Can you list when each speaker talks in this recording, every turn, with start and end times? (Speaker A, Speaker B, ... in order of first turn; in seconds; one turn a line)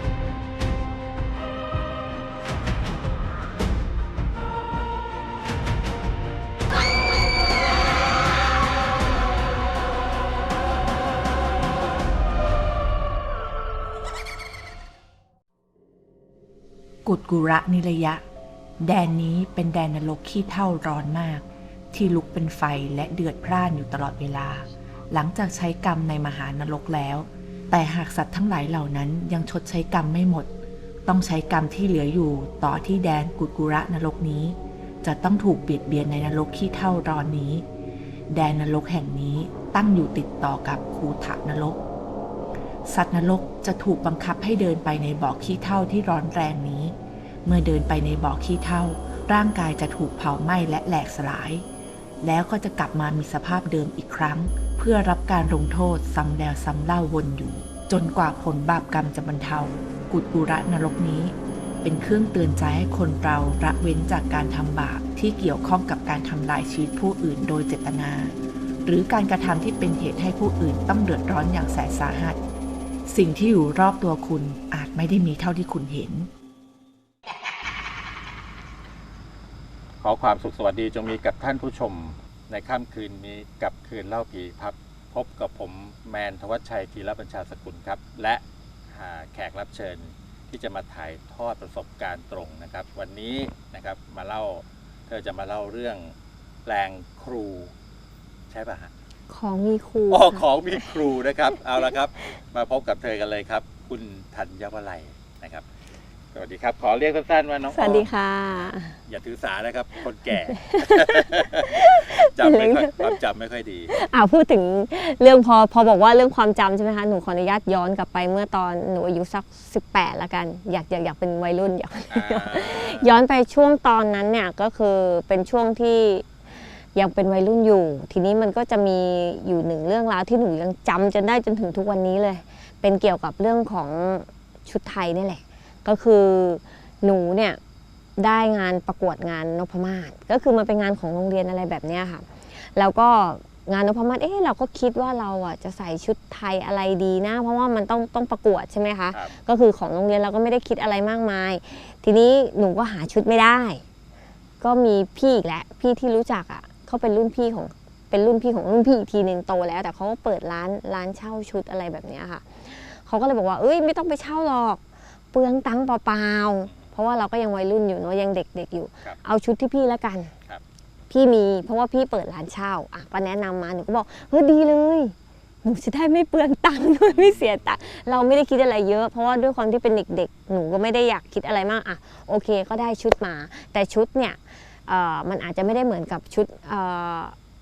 Speaker A: 17.1-18.2
Speaker A: 18.8-30.5
Speaker A: 31.1-37.6
Speaker A: 38.3-41.8
Speaker A: 42.9-51.6
Speaker A: 52.2-72.4
Speaker A: 73.1-76.3
Speaker B: 80.0-96.1
Speaker B: 96.7-97.7
Speaker B: 98.5-98.9
Speaker C: 99.3-101.0
Speaker B: 100.1-105.7
Speaker B: 106.3-108.1
Speaker C: 107.7-109.0
Speaker B: 109.1-113.9
Speaker C: 110.3-113.2
Speaker C: 113.9-126.3
Speaker B: 122.1-123.1
Speaker C: 126.9-137.6
Speaker C: 138.2-153.8
Speaker B: 149.1-149.4
Speaker C: 154.6-164.8
Speaker C: 165.3-170.3
Speaker C: 171.1-187.3
Speaker B: 177.1-177.8